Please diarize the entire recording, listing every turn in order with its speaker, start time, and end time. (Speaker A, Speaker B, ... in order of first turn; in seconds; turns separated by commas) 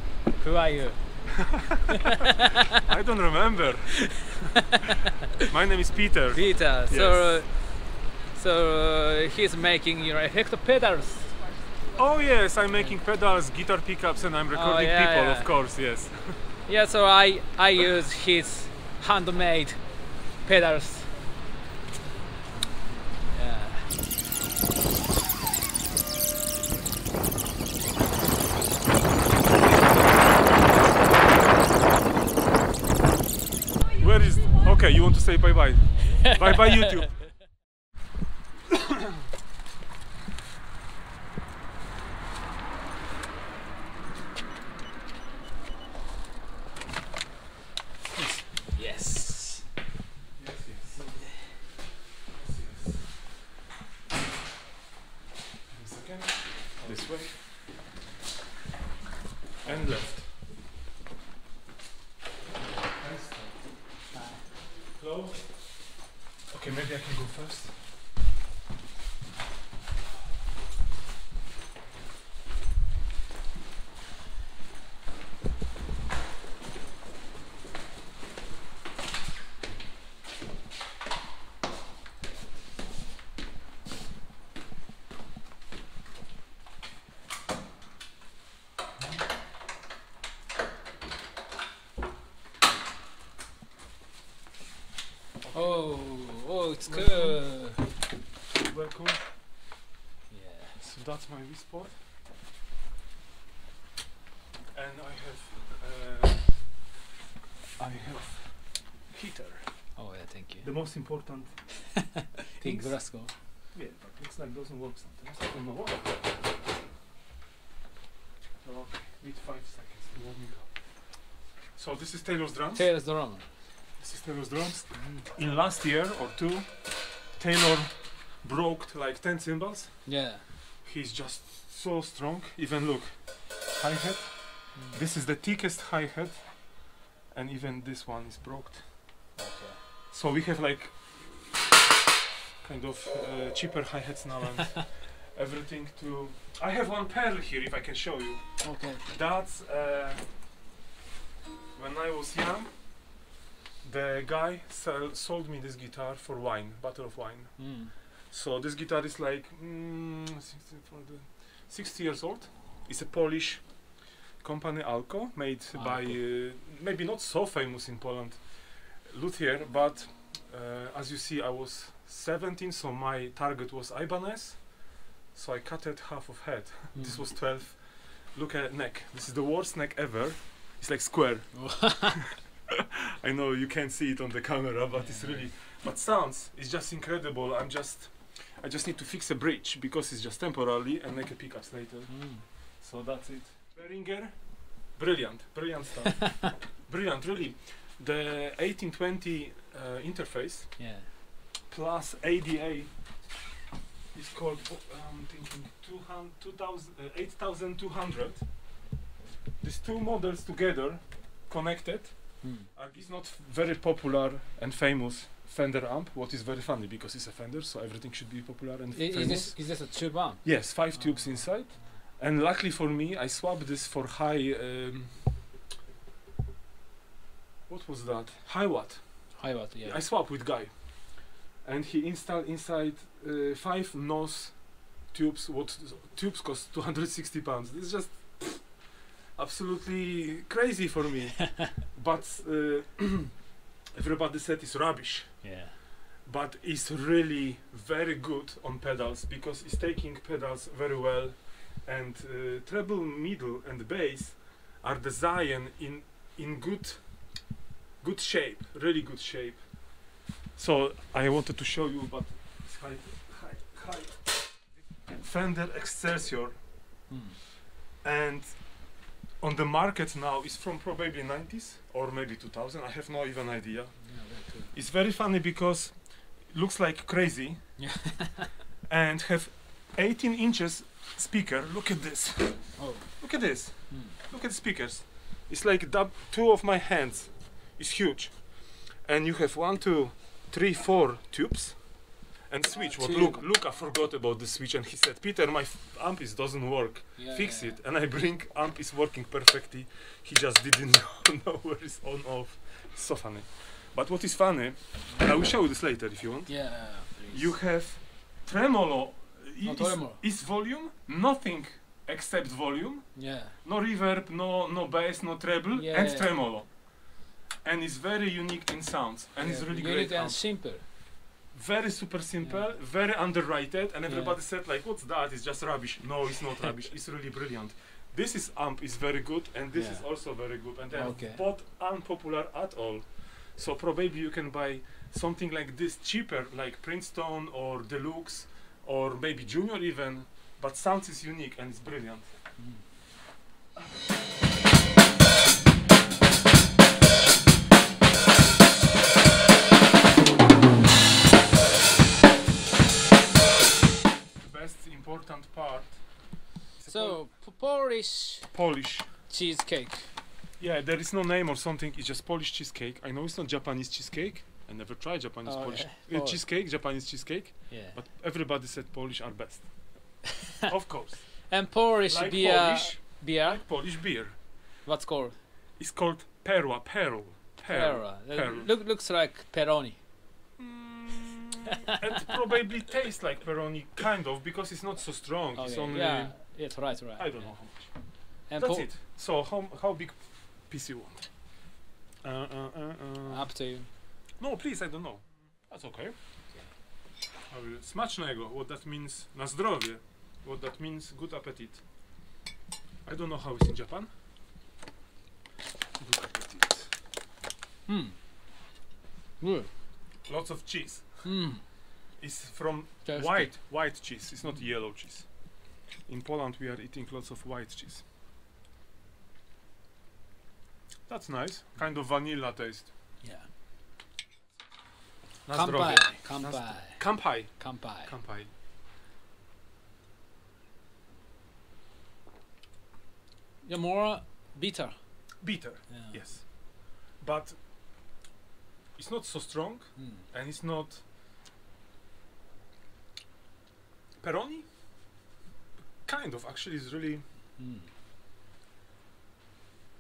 Speaker A: 0.4-1.2, Speaker B: 2.9-4.5, Speaker B: 5.5-7.5, Speaker A: 6.3-11.3, Speaker B: 11.9-16.5, Speaker A: 12.7-13.0, Speaker A: 14.5-15.5, Speaker A: 16.6-19.9, Speaker A: 20.4-21.1, Speaker A: 23.3-23.9, Speaker B: 33.9-37.4, Speaker A: 36.1-36.7, Speaker A: 48.7-49.7, Speaker B: 50.4-51.6, Speaker B: 52.3-53.3, Speaker B: 55.7-57.5, Speaker A: 56.9-57.2, Speaker B: 59.6-60.4, Speaker B: 62.9-63.8, Speaker A: 64.1-64.5, Speaker B: 64.9-66.0, Speaker B: 66.5-67.8, Speaker B: 95.4-96.0, Speaker A: 95.5-97.9, Speaker B: 96.8-97.5, Speaker B: 98.6-99.3, Speaker A: 100.3-100.8, Speaker B: 100.8-102.0, Speaker B: 104.7-106.8, Speaker B: 107.8-110.0, Speaker A: 110.0-110.7, Speaker B: 110.6-112.1, Speaker A: 112.6-113.3, Speaker B: 112.6-116.4, Speaker B: 118.6-122.9, Speaker A: 122.8-123.5, Speaker B: 124.0-130.3, Speaker A: 125.0-125.3, Speaker A: 130.1-130.5, Speaker B: 130.8-138.9, Speaker A: 134.8-135.0, Speaker A: 139.4-139.8, Speaker B: 140.1-141.8, Speaker B: 142.6-150.4, Speaker A: 148.6-149.0, Speaker B: 151.7-153.2, Speaker B: 153.8-182.1, Speaker A: 157.6-157.9, Speaker A: 165.7-166.2, Speaker A: 176.9-177.3, Speaker A: 181.5-182.2, Speaker B: 183.2-200.9, Speaker A: 184.9-185.5, Speaker A: 192.1-192.4, Speaker A: 200.8-201.1, Speaker B: 201.7-203.0, Speaker B: 204.1-208.5, Speaker B: 209.6-225.5, Speaker A: 212.4-212.7, Speaker A: 218.9-222.0, Speaker B: 227.7-245.7, Speaker A: 229.4-230.0, Speaker A: 245.4-245.8, Speaker B: 246.2-257.5, Speaker B: 258.0-266.7, Speaker A: 267.1-267.4, Speaker B: 268.0-277.9, Speaker A: 274.0-274.7, Speaker A: 277.8-278.5, Speaker B: 278.9-320.6, Speaker A: 282.8-283.2, Speaker A: 283.7-284.2, Speaker A: 292.8-293.4, Speaker A: 297.2-297.8, Speaker A: 306.5-307.6, Speaker A: 309.6-310.2, Speaker A: 313.1-313.6, Speaker A: 315.7-316.3, Speaker A: 319.4-320.9, Speaker B: 321.5-342.4, Speaker A: 322.4-322.8, Speaker A: 324.1-324.4, Speaker A: 329.7-330.1, Speaker A: 330.9-331.4, Speaker A: 342.6-342.9, Speaker B: 354.4-357.3, Speaker A: 356.9-358.5, Speaker B: 358.5-359.2, Speaker A: 359.3-360.1, Speaker B: 360.6-371.5, Speaker A: 365.4-366.4, Speaker A: 367.7-368.0, Speaker A: 371.4-375.4, Speaker B: 372.1-374.4, Speaker B: 375.8-378.7, Speaker A: 377.6-380.0, Speaker B: 380.6-391.6, Speaker A: 385.6-387.6, Speaker A: 388.5-388.9, Speaker B: 392.2-393.5, Speaker A: 393.3-393.9, Speaker B: 394.4-396.1, Speaker B: 397.5-401.9, Speaker B: 403.1-404.1, Speaker B: 406.0-406.9, Speaker A: 407.9-408.2, Speaker A: 409.4-409.7, Speaker B: 410.2-411.3, Speaker A: 411.2-411.6, Speaker B: 412.2-418.1, Speaker A: 413.1-413.6, Speaker B: 421.1-422.9, Speaker A: 423.2-423.5, Speaker B: 425.4-428.5, Speaker A: 425.5-428.1, Speaker A: 433.6-435.0, Speaker B: 435.4-437.6, Speaker A: 435.9-436.2, Speaker B: 439.0-441.0, Speaker A: 440.0-440.3, Speaker B: 444.2-444.7, Speaker B: 446.1-447.2, Speaker A: 447.6-447.9